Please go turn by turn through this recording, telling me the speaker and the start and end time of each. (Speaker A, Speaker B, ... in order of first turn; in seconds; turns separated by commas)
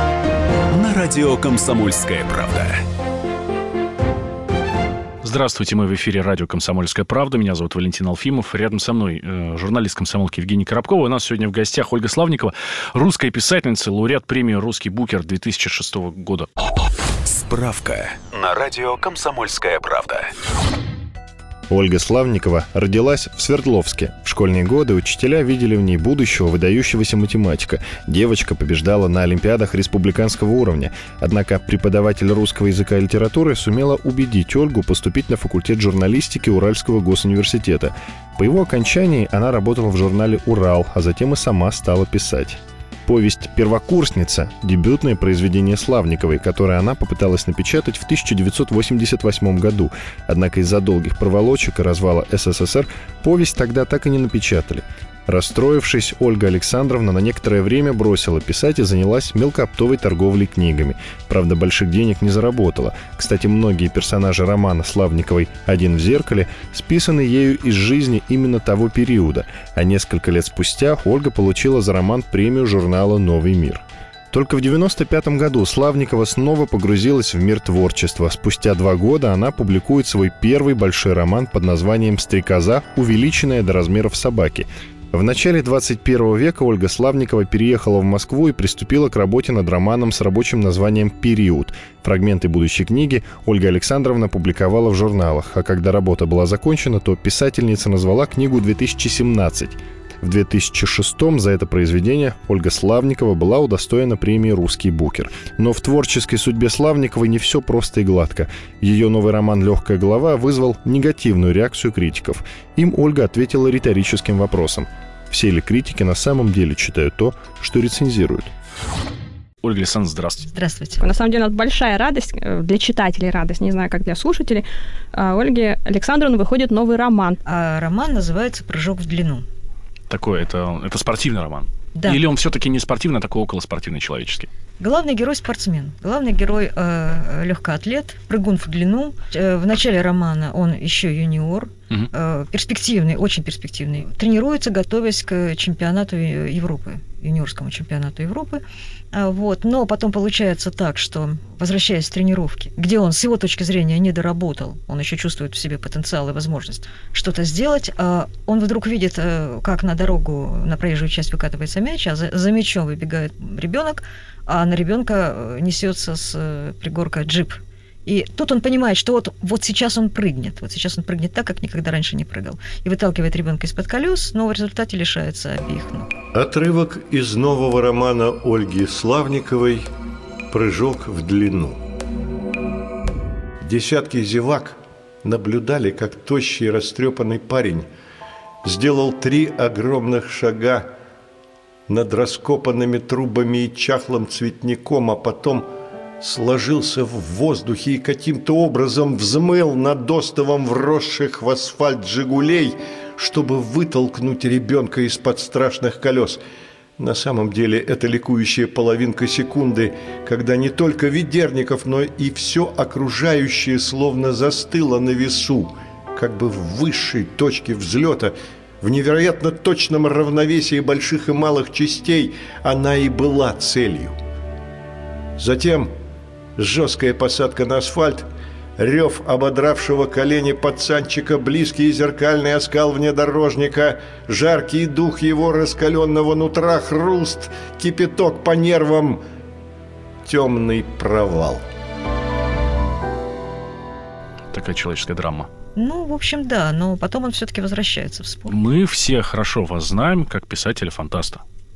Speaker A: 0.7-2.8, Speaker B: 5.2-16.5, Speaker A: 17.2-20.3, Speaker C: 21.7-118.5, Speaker B: 119.6-120.5, Speaker D: 120.5-121.0, Speaker E: 121.0-127.4, Speaker D: 127.4-129.4, Speaker B: 130.1-134.5, Speaker D: 131.9-132.2, Speaker D: 134.8-176.1, Speaker F: 176.3-179.9, Speaker F: 180.5-181.8, Speaker F: 183.6-187.9, Speaker F: 188.6-190.9, Speaker F: 191.9-195.7, Speaker F: 196.2-206.4, Speaker F: 207.0-224.2, Speaker F: 225.4-225.9, Speaker F: 226.6-228.2, Speaker F: 228.8-239.2, Speaker F: 240.2-241.6, Speaker B: 244.5-245.5, Speaker D: 245.8-248.6, Speaker B: 248.5-251.4